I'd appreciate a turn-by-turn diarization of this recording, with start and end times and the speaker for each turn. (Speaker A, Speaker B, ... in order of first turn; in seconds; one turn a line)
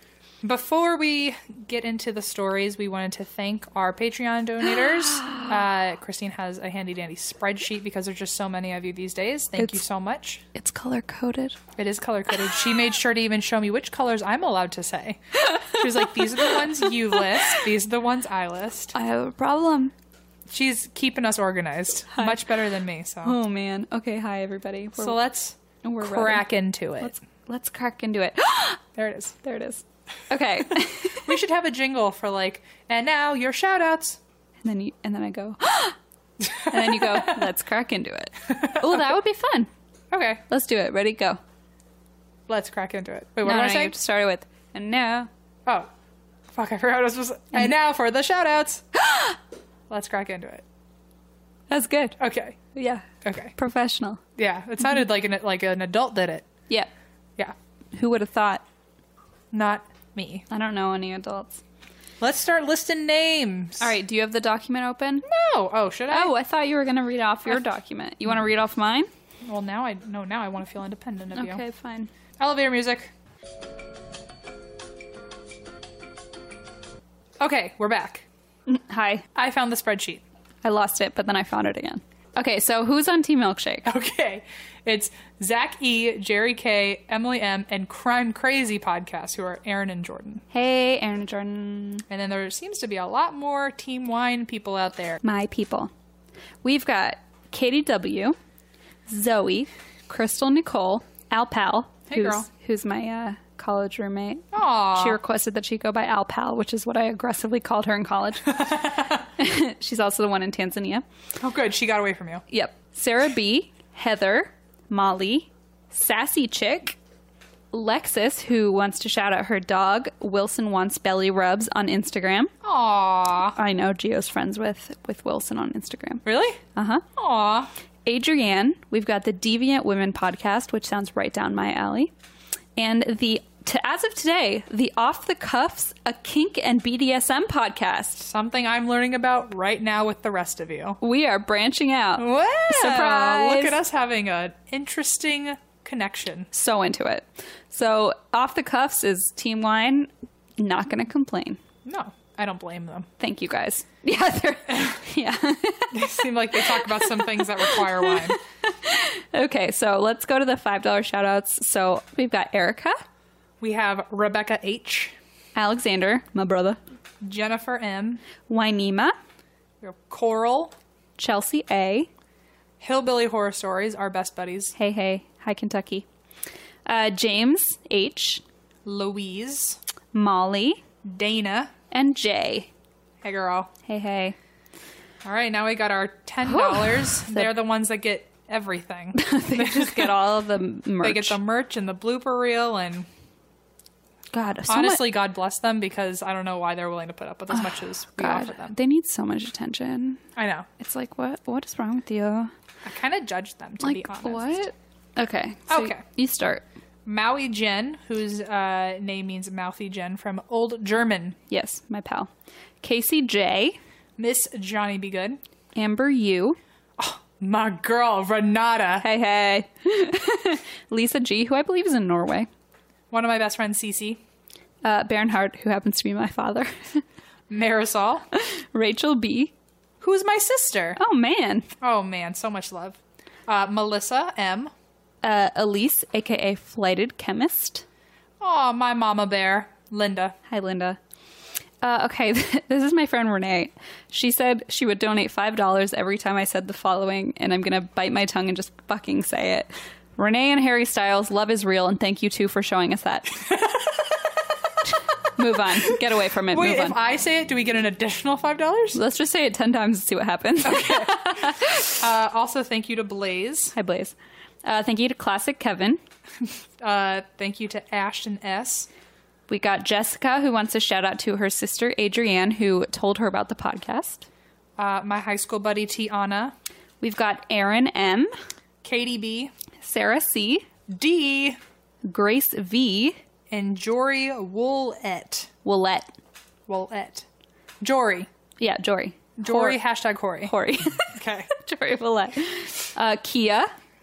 Speaker A: 0.4-10.4
Speaker B: 5.1-5.5
Speaker B: 10.6-11.6
Speaker A: 11.8-18.9
Speaker B: 18.9-19.9
Speaker A: 20.5-23.4
Speaker B: 22.1-22.5
Speaker B: 23.2-25.2
Speaker A: 25.0-27.1
Speaker B: 25.8-26.5
Speaker B: 27.0-28.8
Speaker A: 29.0-29.4
Speaker B: 29.4-31.3
Speaker A: 31.2-34.2
Speaker B: 34.6-36.0
Speaker A: 36.5-37.5
Speaker B: 36.7-39.7
Speaker A: 38.5-39.0
Speaker A: 40.1-40.4
Speaker B: 40.5-41.4
Speaker A: 42.5-43.9
Speaker B: 43.4-45.3
Speaker A: 46.5-48.9
Speaker B: 49.0-49.4
Speaker A: 49.9-50.6
Speaker B: 51.7-52.2
Speaker A: 52.2-52.6
Speaker B: 52.8-54.2
Speaker A: 53.2-53.5
Speaker A: 54.4-56.5
Speaker B: 57.9-58.6
Speaker A: 59.5-60.5
Speaker B: 60.5-61.6
Speaker A: 62.2-63.9
Speaker B: 63.8-65.2
Speaker A: 65.3-66.3
Speaker B: 66.1-69.1
Speaker A: 69.5-71.6
Speaker B: 71.3-72.1
Speaker A: 72.4-73.1
Speaker A: 77.4-78.2
Speaker B: 78.7-79.2
Speaker A: 79.3-80.2
Speaker B: 80.6-83.9
Speaker A: 83.8-90.4
Speaker B: 90.5-92.0
Speaker A: 92.1-95.2
Speaker B: 95.2-95.9
Speaker B: 96.6-98.4
Speaker B: 99.1-108.6
Speaker A: 102.1-102.5
Speaker A: 104.5-105.2
Speaker A: 108.5-109.2
Speaker B: 109.4-111.0
Speaker A: 111.4-112.4
Speaker B: 112.5-117.0
Speaker B: 117.7-122.5
Speaker A: 122.6-123.6
Speaker B: 123.6-126.2
Speaker A: 126.2-126.6
Speaker B: 126.8-127.0
Speaker A: 127.2-127.7
Speaker B: 128.1-132.1
Speaker B: 132.8-138.3
Speaker A: 138.2-141.0
Speaker B: 141.0-143.8
Speaker A: 142.2-146.5
Speaker B: 146.5-151.6
Speaker A: 151.8-153.1
Speaker B: 153.2-163.0
Speaker A: 155.9-158.4
Speaker A: 163.6-165.2
Speaker B: 165.6-166.8
Speaker A: 167.2-168.2
Speaker B: 168.5-169.2
Speaker A: 169.8-170.7
Speaker B: 171.2-172.1
Speaker A: 172.8-174.8
Speaker B: 174.8-176.1
Speaker B: 176.9-178.4
Speaker A: 178.9-179.8
Speaker B: 180.1-180.8
Speaker A: 181.0-181.7
Speaker B: 181.9-182.7
Speaker A: 183.2-183.7
Speaker B: 183.9-184.4
Speaker A: 185.2-190.2
Speaker B: 186.4-187.5
Speaker B: 189.2-191.4
Speaker A: 191.0-193.1
Speaker B: 194.3-195.1
Speaker A: 194.7-198.8
Speaker B: 197.5-200.2
Speaker A: 200.4-200.7
Speaker B: 200.8-202.5
Speaker A: 202.8-204.5
Speaker B: 203.8-206.6
Speaker A: 205.7-206.0
Speaker A: 207.1-211.4
Speaker B: 211.5-212.3
Speaker B: 212.8-213.8
Speaker A: 214.2-215.4
Speaker B: 215.8-216.6
Speaker A: 217.0-219.1
Speaker B: 219.0-222.5
Speaker A: 223.1-224.2
Speaker B: 224.8-227.0
Speaker A: 227.5-228.2
Speaker B: 228.3-229.5
Speaker A: 230.0-231.0
Speaker B: 231.0-231.7
Speaker A: 231.8-234.7
Speaker B: 235.2-237.8
Speaker A: 238.4-240.4
Speaker B: 240.5-241.0
Speaker B: 241.8-253.3
Speaker B: 255.4-257.0
Speaker A: 256.5-259.0
Speaker B: 258.9-261.9
Speaker A: 260.6-263.8
Speaker B: 263.8-266.0
Speaker A: 266.8-268.9
Speaker B: 269.5-274.3
Speaker A: 274.8-276.5
Speaker B: 277.0-278.3
Speaker A: 278.8-279.5
Speaker B: 279.8-280.6
Speaker A: 280.9-281.6
Speaker B: 282.0-283.2
Speaker A: 283.5-285.5
Speaker B: 285.6-286.1
Speaker A: 286.7-287.2
Speaker A: 287.8-288.3
Speaker B: 288.6-289.8
Speaker A: 289.4-290.5
Speaker B: 290.4-293.7
Speaker A: 291.1-291.5